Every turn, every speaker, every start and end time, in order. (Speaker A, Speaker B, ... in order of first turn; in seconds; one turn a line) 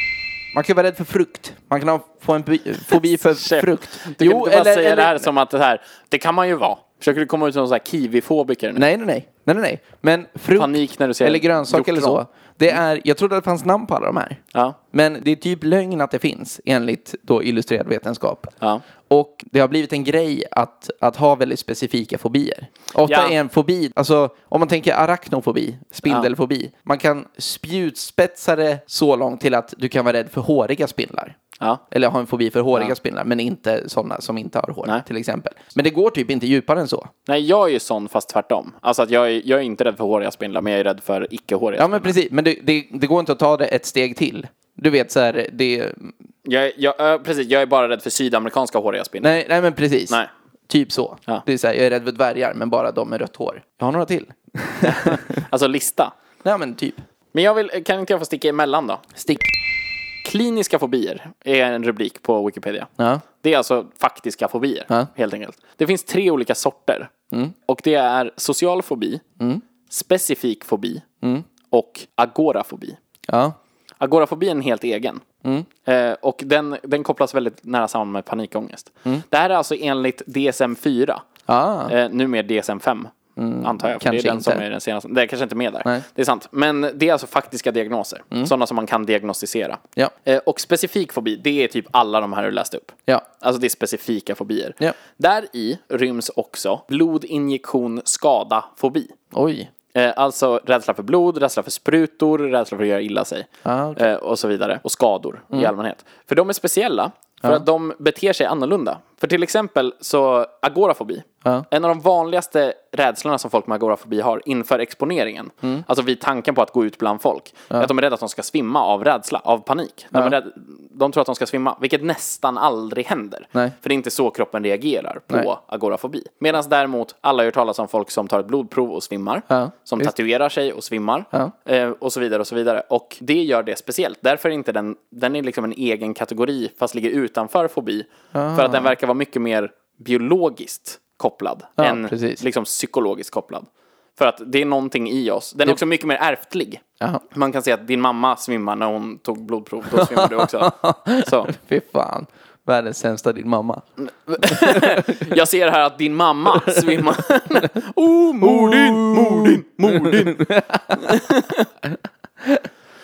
Speaker A: 0.5-5.3
Speaker B: 2.9-8.8
Speaker A: 8.8-14.4
Speaker B: 10.6-12.2
Speaker A: 14.9-18.5
Speaker A: 19.1-31.4
Speaker B: 23.1-23.4
Speaker B: 26.1-26.3
Speaker A: 31.9-37.1
Speaker B: 37.3-42.2
Speaker A: 41.8-46.1
Speaker B: 46.5-49.3
Speaker A: 49.2-55.2
Speaker B: 54.8-56.1
Speaker A: 56.4-57.0
Speaker B: 57.3-59.1
Speaker A: 59.2-59.5
Speaker B: 60.2-67.1
Speaker A: 63.0-63.2
Speaker B: 67.7-69.2
Speaker B: 69.9-71.1
Speaker B: 71.7-73.0
Speaker A: 73.3-73.6
Speaker B: 74.0-75.2
Speaker B: 75.8-81.3
Speaker A: 81.5-81.9
Speaker B: 81.9-99.2
Speaker A: 83.4-84.6
Speaker A: 99.3-99.7
Speaker B: 99.9-151.5
Speaker A: 103.7-104.0
Speaker A: 129.5-130.1
Speaker A: 138.3-138.9
Speaker A: 141.8-142.4
Speaker A: 149.9-153.8
Speaker B: 154.0-161.7
Speaker A: 154.4-155.3
Speaker A: 156.7-157.0
Speaker A: 158.3-162.7